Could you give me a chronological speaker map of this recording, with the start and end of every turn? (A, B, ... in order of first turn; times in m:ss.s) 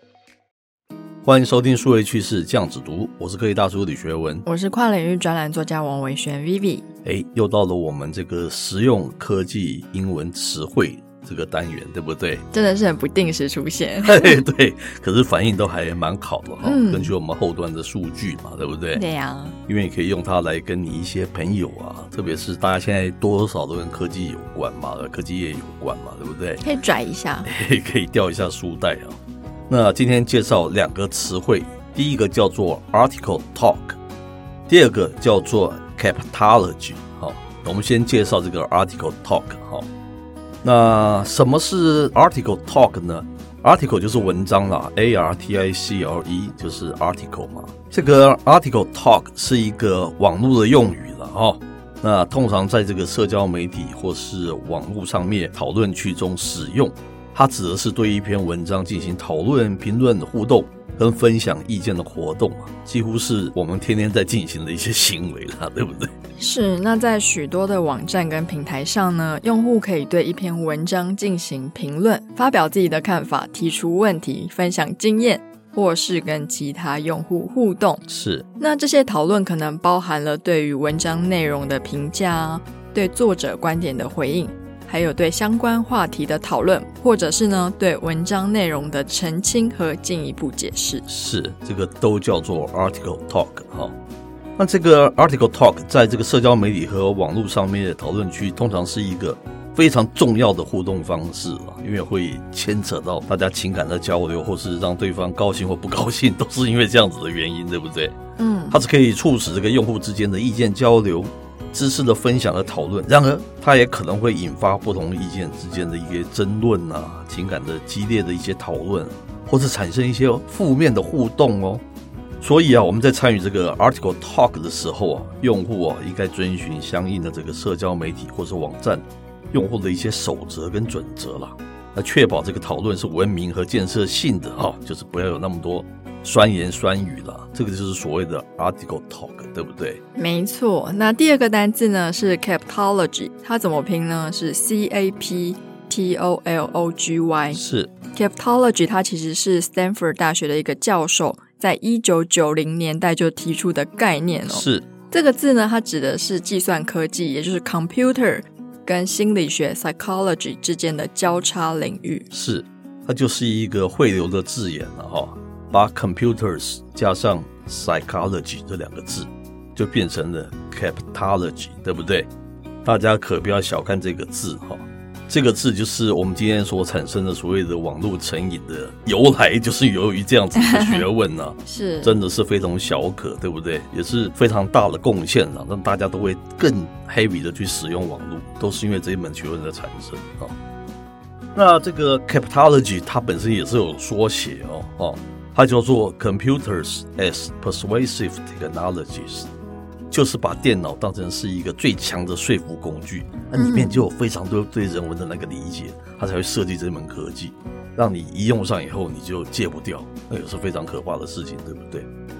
0:01.2-0:04.4 A
0:04.5-0:06.9 B
0:07.0-0:12.4 A
0:12.5-0:14.4 B
0:14.0-0:19.0 A
0:16.6-0:17.1 B
0:18.9-0:19.6 B
0:19.7-0:26.6 A
0:26.6-0:27.5 B
0:27.4-0:29.2 A
0:29.7-0:34.0 A
0:34.7-0:39.9 A
0:40.6-1:06.1 A
1:06.4-1:18.0 B
1:18.1-1:18.5 A
1:18.6-1:31.0 B
1:31.1-1:34.0 A
1:34.6-1:48.2 A
1:48.4-1:48.8 B
1:48.7-2:01.8 A
2:02.4-2:20.0 A
2:20.2-2:27.6 B
2:27.5-2:27.9 A
2:28.1-2:42.3 B
2:34.5-2:34.9 A
2:42.3-2:52.3 A
2:52.8-3:10.5 A
3:00.6-3:01.0 B
3:01.7-3:02.2 B
3:11.6-3:19.5 A
3:20.1-3:32.1 A
3:23.6-3:24.0 B